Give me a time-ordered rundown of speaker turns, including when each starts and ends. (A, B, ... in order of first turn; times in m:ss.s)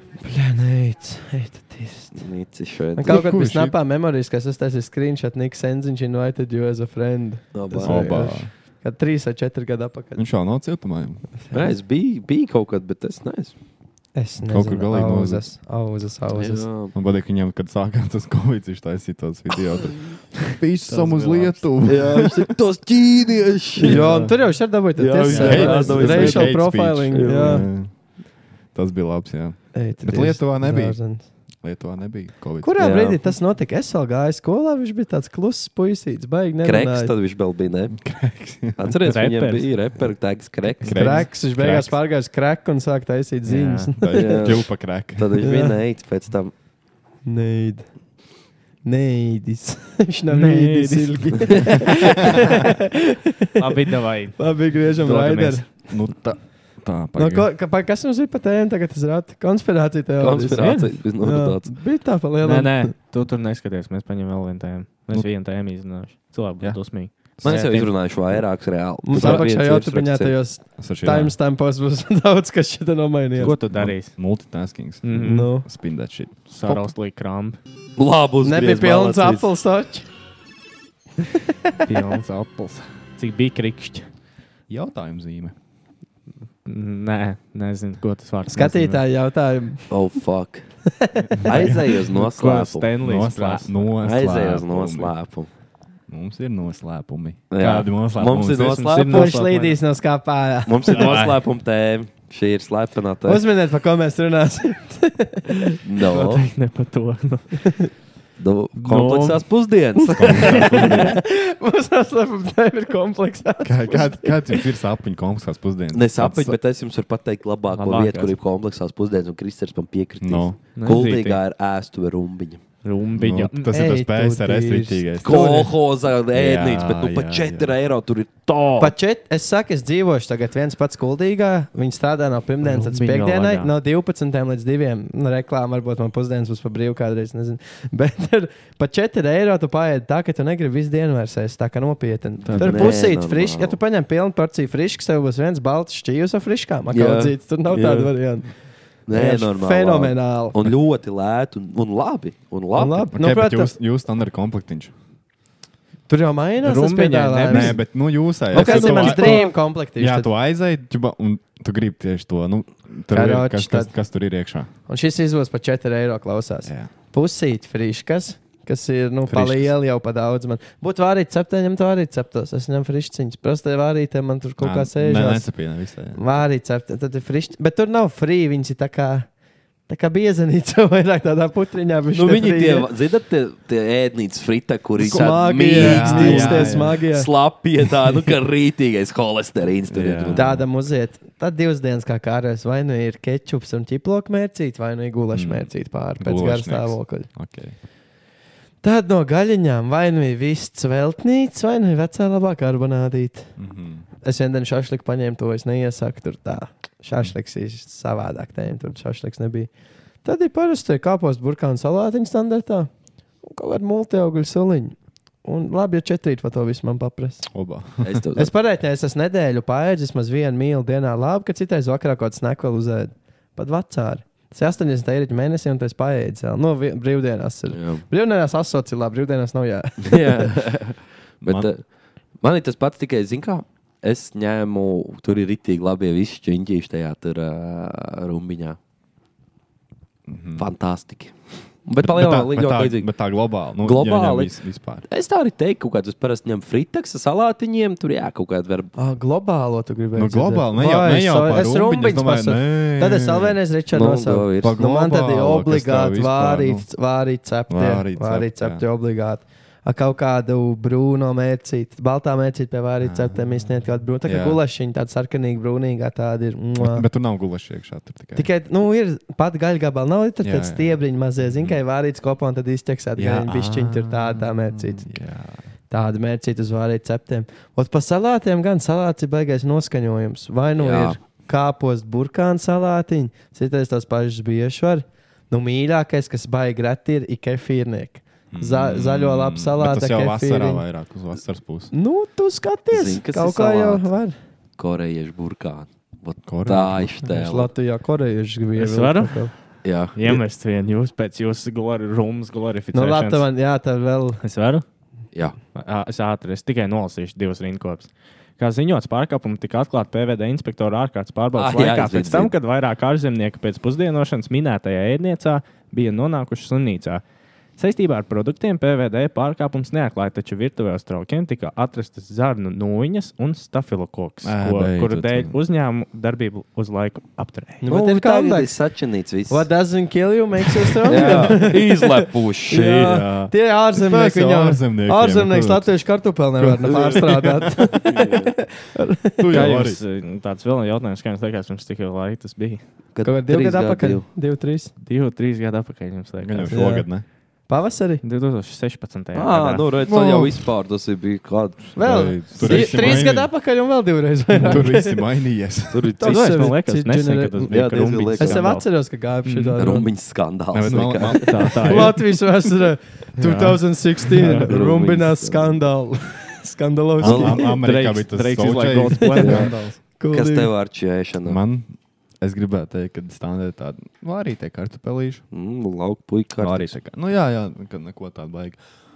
0:00.2-0:02.3 A
0:02.2-0:03.3 B
0:03.0-0:10.2 A
0:03.1-0:03.8 C
0:07.5-0:08.2 B
0:07.8-0:08.5 C
0:10.2-0:11.3 C
0:11.5-0:13.6 B
0:14.2-0:16.6 A
0:14.4-0:15.4 C
0:16.4-0:16.9 B
0:16.9-0:22.5 C
0:20.8-0:22.0 D
0:21.8-0:24.3 B
0:23.8-0:27.7 A
0:23.8-0:24.3 C
0:25.0-0:27.7 B
0:25.3-0:28.1 C
0:28.7-0:31.0 C
0:29.7-0:31.3 A
0:31.6-0:33.1 C
0:32.6-0:37.1 A
0:32.8-0:33.2 B
0:36.6-0:38.0 B
0:38.0-0:38.9 C
0:38.8-0:41.2 B
0:39.0-0:39.7 D
0:40.8-0:42.0 C
0:40.9-0:44.4 A
0:43.5-0:44.0 D
0:44.0-0:45.4 C
0:44.1-0:46.5 B
0:45.4-0:45.8 A
0:47.2-0:47.9 A
0:48.8-0:53.6 A
0:50.3-0:52.4 D
0:53.6-0:55.9 D
0:54.4-0:55.7 A
0:55.9-0:57.5 C
0:57.2-1:02.9 A
1:00.2-1:01.7 B
1:00.5-1:00.9 D
1:02.4-1:08.2 D
1:07.4-1:10.3 B
1:09.0-1:13.6 A
1:09.1-1:09.5 C
1:10.8-1:11.4 C
1:13.4-1:14.2 D
1:13.7-1:16.8 C
1:15.0-1:15.5 D
1:15.2-1:15.7 A
1:16.5-1:17.6 D
1:18.0-1:19.5 B
1:18.4-1:20.1 A
1:21.9-1:24.1 D
1:24.7-1:25.6 C
1:26.6-1:29.0 D
1:28.5-1:29.9 A
1:29.9-1:30.7 B
1:31.0-1:31.7 A
1:31.4-1:32.9 B
1:32.1-1:33.7 D
1:33.0-1:35.2 C
1:34.0-1:35.5 B
1:36.1-1:38.9 C
1:37.5-1:39.3 B
1:38.6-1:39.8 D
1:39.1-1:41.2 A
1:40.7-1:43.4 B
1:40.9-1:41.4 C
1:43.3-1:45.8 A
1:45.8-1:46.4 B
1:46.1-1:47.8 D
1:48.4-1:51.1 B
1:48.8-1:49.5 D
1:50.1-1:54.6 A
1:50.2-1:51.2 C
1:53.6-1:56.6 C
1:55.9-2:02.6 B
1:57.7-1:58.4 D
2:00.2-2:00.6 C
2:00.8-2:01.4 D
2:02.8-2:03.7 D
2:03.2-2:07.8 C
2:03.7-2:05.0 A
2:05.2-2:08.9 B
2:08.8-2:28.5 A
2:12.6-2:13.7 D
2:22.5-2:23.0 D
2:22.6-2:23.8 B
2:26.9-2:28.1 B
2:29.1-2:33.1 B
2:29.1-2:30.6 A
2:32.7-2:33.7 A
2:33.1-2:34.9 C
2:36.1-2:37.8 A
2:36.6-2:37.9 D
2:37.5-2:44.7 C
2:38.5-2:40.3 A
2:38.5-2:39.5 D
2:43.1-2:43.9 A
2:44.9-2:55.5 A
2:49.3-2:49.7 C
2:54.6-2:56.2 C
2:56.2-2:59.3 A
2:59.9-3:02.9 A
3:02.1-3:10.5 B
3:05.0-3:07.0 C
3:05.0-3:07.3 A
3:09.9-3:10.7 C
3:10.4-3:17.3 A
3:15.3-3:17.8 C
3:18.8-3:23.5 A
3:23.6-3:24.0 C
3:24.2-3:29.7 A
3:30.2-3:32.9 A
3:33.4-3:37.5 A
3:37.5-3:38.2 C
3:38.0-3:38.5 B
3:38.4-3:50.5 A
3:47.7-3:48.0 B
3:50.0-3:51.8 B
3:52.4-3:58.8 B
4:00.3-4:00.7 C
4:00.6-4:03.1 B
4:02.0-4:05.1 C
4:03.8-4:04.5 B
4:05.1-4:08.9 B
4:09.0-4:27.0 A
4:10.1-4:13.6 C
4:13.9-4:14.8 B
4:14.6-4:16.9 C
4:17.7-4:18.8 C
4:23.0-4:23.5 C
4:24.2-4:24.6 C
4:26.8-4:28.5 C
4:28.4-4:35.1 A
4:30.4-4:31.8 C
4:33.2-4:35.6 C
4:35.9-4:50.9 A
4:40.8-4:41.2 B
4:48.5-4:51.9 C
4:51.9-4:54.4 A
4:52.9-4:54.1 B
4:54.8-4:57.7 B
4:56.5-4:57.3 C
4:57.3-4:59.5 A
4:58.8-5:03.5 D
4:59.8-5:00.2 B
5:02.9-5:04.4 A
5:04.4-5:04.8 D
5:05.7-5:17.2 D
5:11.6-5:12.5 B
5:17.8-5:27.8 D
5:24.4-5:25.6 C
5:27.8-5:28.8 A
5:27.9-5:29.7 B
5:29.5-5:39.5 A
5:31.0-5:33.2 B
5:31.1-5:31.5 C
5:32.8-5:36.1 C
5:36.6-5:38.0 C
5:38.0-5:38.5 B
5:39.4-5:40.0 C
5:39.5-5:42.8 D
5:43.2-5:44.2 B
5:43.2-5:44.9 A
5:45.0-5:46.9 D
5:46.4-5:47.2 C
5:46.7-5:47.1 A
5:47.7-5:48.2 A
5:48.2-5:49.8 D
5:49.4-5:52.0 B
5:50.0-5:50.7 C
5:52.0-5:53.5 C
5:52.0-5:55.2 A
5:52.6-5:53.1 B
5:54.6-5:56.1 C
5:55.9-5:56.2 B
5:56.2-5:57.7 A
5:56.2-5:58.8 D
5:57.7-5:58.6 B
5:58.4-6:00.1 A
5:59.4-5:59.8 D
5:59.8-6:01.7 B
6:00.7-6:02.2 C
6:01.2-6:02.3 D
6:01.8-6:07.7 A
6:03.4-6:04.7 D
6:04.6-6:05.8 B
6:07.2-6:09.8 C
6:07.2-6:07.6 B
6:07.6-6:09.9 D
6:09.2-6:10.7 A
6:09.4-6:09.7 B
6:10.3-6:11.6 B
6:11.4-6:15.4 C
6:15.5-6:17.0 B
6:16.6-6:18.8 C